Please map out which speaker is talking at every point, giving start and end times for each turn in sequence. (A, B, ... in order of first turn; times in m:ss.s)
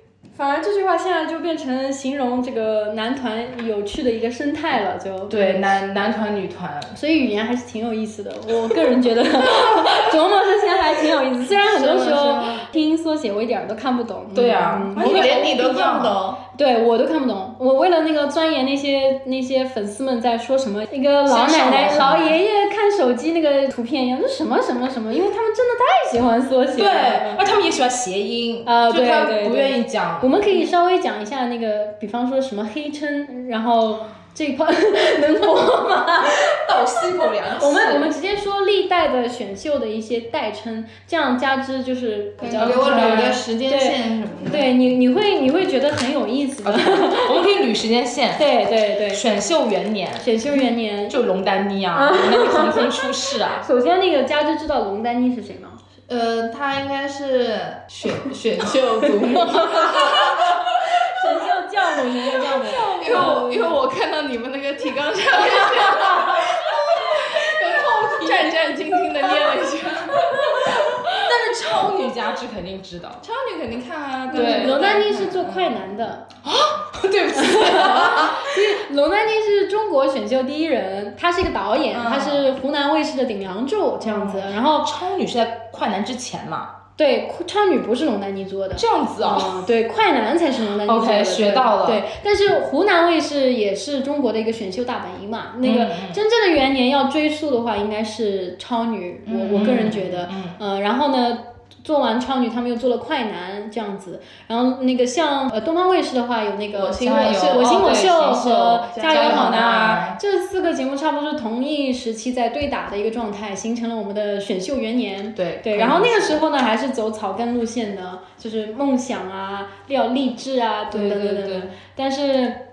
0:00.3-0:05.6 A
0:05.3-0:07.0 B
0:06.9-0:15.4 A
0:11.5-0:12.6 C
0:14.3-0:16.2 B
0:15.0-0:16.4 C
0:16.6-0:27.4 A
0:21.2-0:22.4 B
0:26.7-0:30.7 B
0:28.6-0:36.6 A
0:36.3-0:38.1 B
0:37.6-0:47.4 A
0:42.4-0:44.7 C
0:42.5-0:43.4 B
0:46.6-0:48.4 B
0:48.4-0:49.2 A
0:49.1-0:50.3 B
0:50.2-0:51.2 A
0:51.1-0:53.6 B
0:51.9-0:55.8 A
0:56.1-1:00.6 C
0:59.3-1:03.7 A
1:02.4-1:10.7 C
1:02.9-1:03.7 B
1:05.6-1:08.6 B
1:10.3-1:13.2 B
1:10.7-1:11.2 A
1:13.2-1:15.8 C
1:14.3-1:16.3 A
1:14.3-1:14.9 B
1:16.4-1:18.6 B
1:17.3-1:24.9 A
1:17.7-1:18.3 C
1:21.9-1:22.5 C
1:24.0-1:26.7 B
1:27.0-2:02.6 A
1:28.8-1:29.6 B
1:30.8-1:32.0 B
1:35.6-1:36.2 B
1:39.2-1:39.9 C
1:39.5-1:40.6 B
1:46.7-1:50.2 C
1:47.0-1:50.1 B
1:55.4-1:56.4 B
2:00.9-2:01.7 B